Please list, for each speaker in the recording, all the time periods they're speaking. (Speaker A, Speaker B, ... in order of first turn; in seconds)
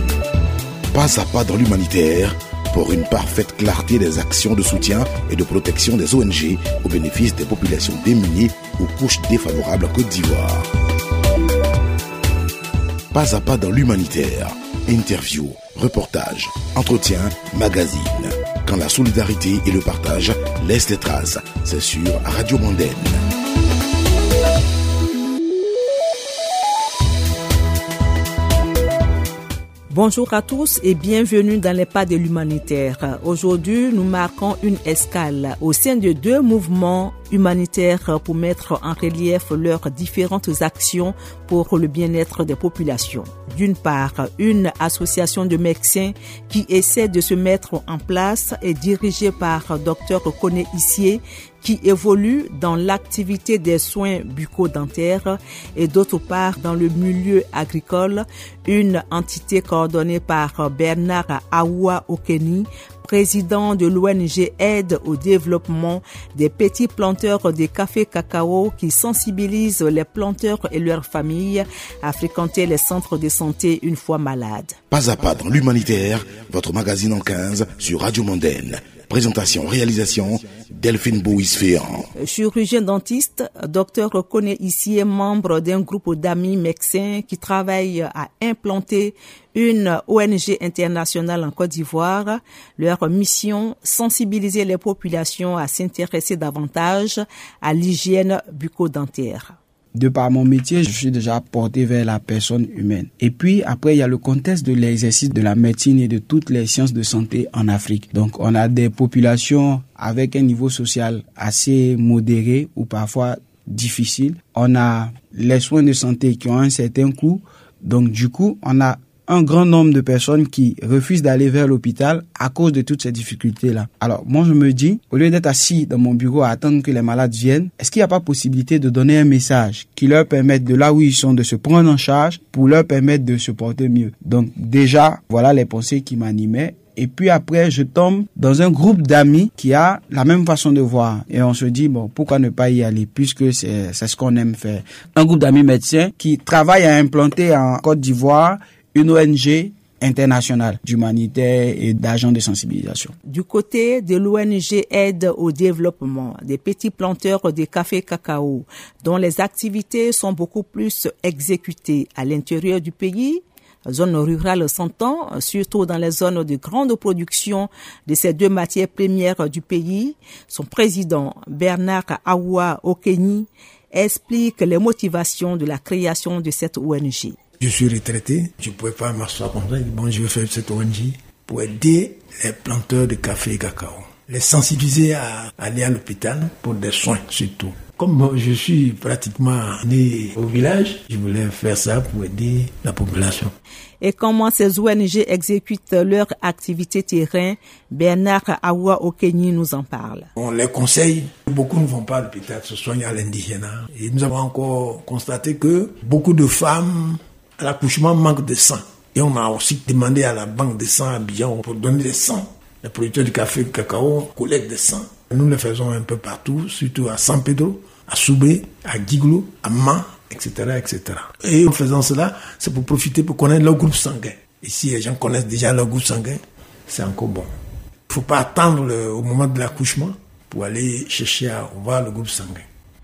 Speaker A: 0.9-10.7, 13.1-23.2, 74.9-82.1
Speaker B: 29.9-74.8, 82.2-99.6, 153.3-177.4, 194.0-200.3
Speaker C: 99.9-153.2
Speaker D: 177.6-193.5, 200.4-227.5, 228.1-232.7